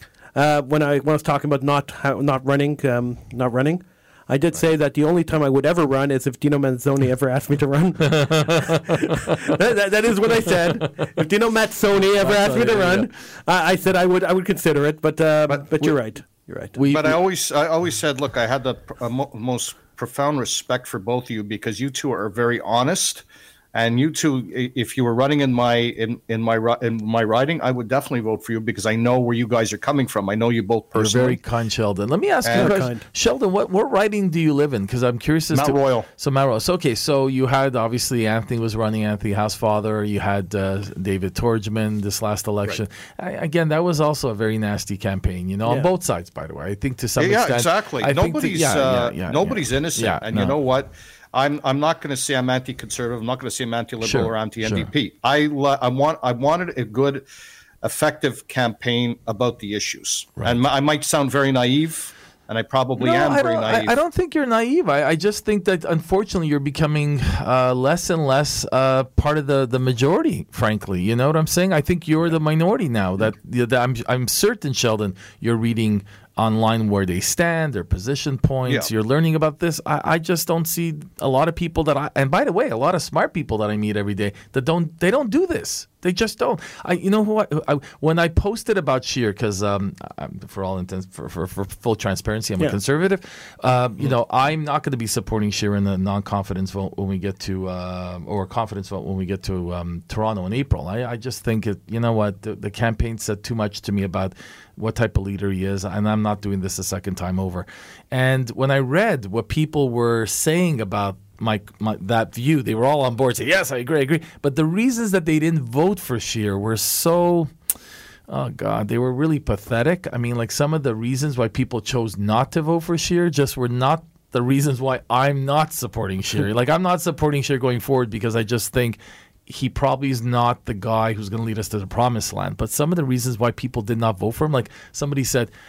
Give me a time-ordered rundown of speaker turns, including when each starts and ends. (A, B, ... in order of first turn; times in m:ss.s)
0:00.4-0:16.8 A
0:08.1-0:09.4 B
0:12.2-0:13.1 B
0:16.8-0:17.2 B
0:16.8-0:31.4 C
0:31.0-0:50.6 B
0:32.4-0:32.8 C
0:32.5-0:33.0 A
0:35.5-0:36.1 C
0:47.2-0:57.2 C
0:54.0-0:54.9 B
0:57.8-1:03.9 C
1:03.0-1:57.5 B
1:58.3-2:15.5 B